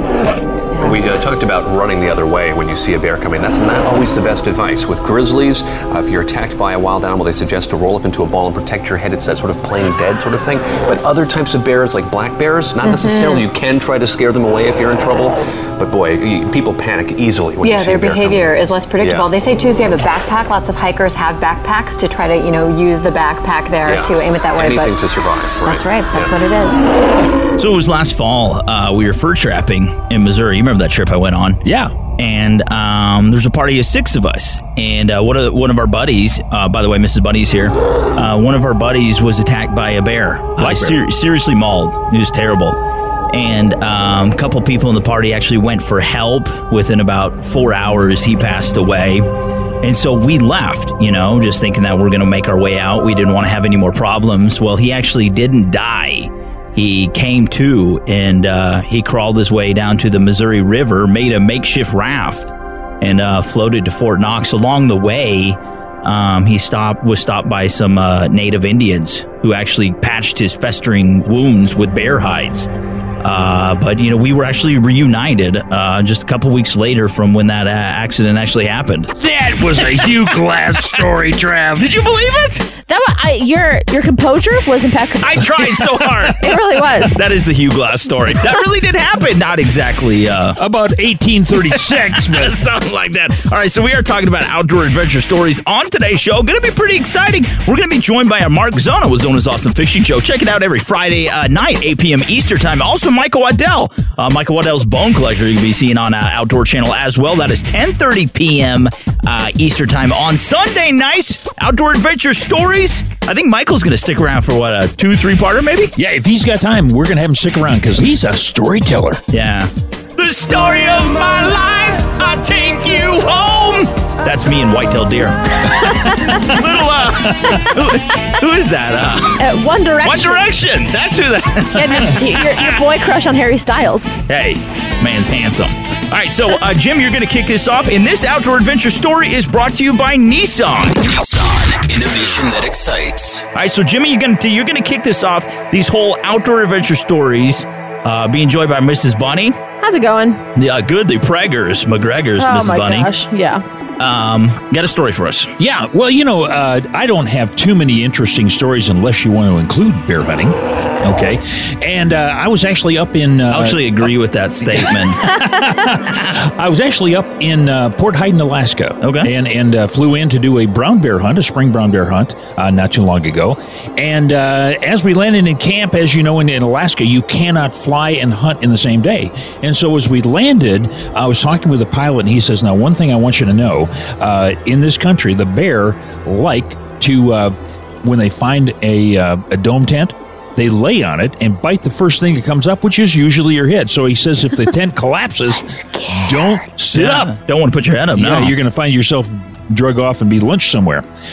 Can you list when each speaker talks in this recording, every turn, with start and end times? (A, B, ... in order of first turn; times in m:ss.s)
0:00.8-0:19.3 A
0:17.6-0:25.0 B
0:23.8-0:26.4 A
0:25.6-0:26.8 B
0:27.6-0:31.6 C
0:31.6-0:31.9 D
0:32.2-0:42.8 C
0:40.6-0:41.0 D
0:43.3-0:49.3 C
0:49.8-1:12.7 C
1:13.2-1:19.1 C
1:19.2-1:21.9 D
1:21.8-1:22.7 C
1:22.8-1:25.4 E
1:25.2-1:30.6 C
1:26.4-1:27.2 E
1:30.6-1:32.6 D
1:31.7-1:55.9 C
1:56.0-1:59.2 D
1:59.3-2:09.5 C
2:09.4-2:10.5 E
2:10.0-2:12.4 C
2:11.8-2:14.2 E
2:14.3-2:21.0 C
2:21.0-2:23.5 F
2:23.6-2:29.6 C
2:29.8-2:30.4 E
2:30.6-2:33.1 C
2:32.4-2:33.6 E
2:34.0-2:35.5 C
2:35.6-2:44.1 D
2:43.5-2:45.2 C
2:44.6-3:17.3 D
2:49.0-2:49.3 C
3:16.9-3:18.6 C
3:18.2-3:21.0 D